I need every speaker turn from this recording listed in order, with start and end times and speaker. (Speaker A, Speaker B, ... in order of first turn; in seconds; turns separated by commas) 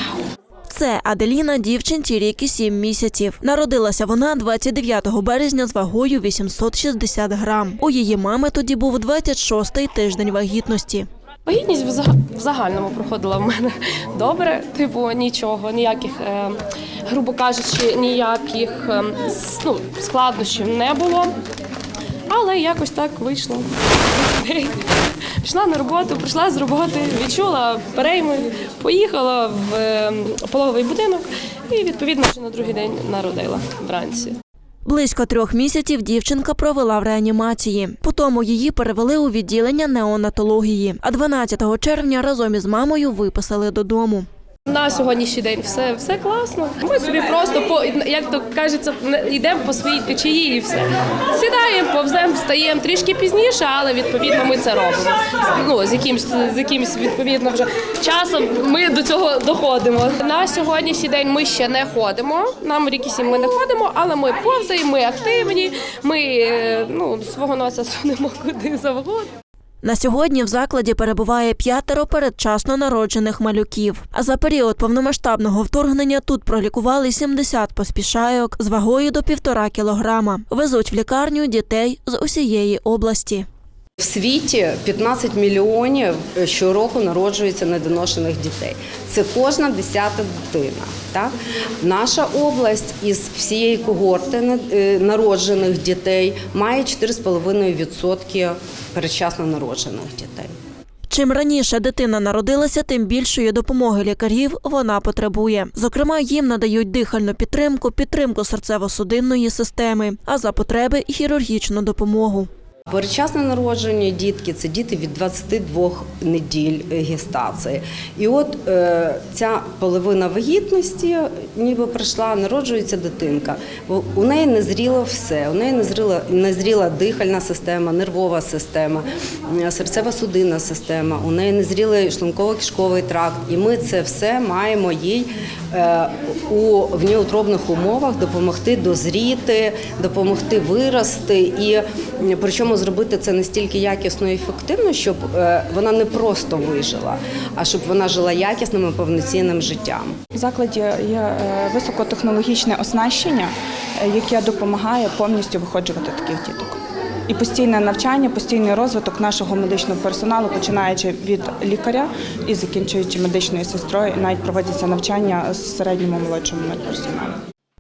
Speaker A: 0.7-11.1, Speaker B: 11.5-21.3, Speaker B: 22.3-24.8, Speaker B: 25.4-34.4, Speaker A: 34.9-44.3, Speaker B: 44.7-69.3, Speaker A: 69.8-83.5, Speaker C: 84.0-100.5, Speaker A: 101.1-112.5, Speaker C: 112.9-150.2, Speaker D: 150.4-167.3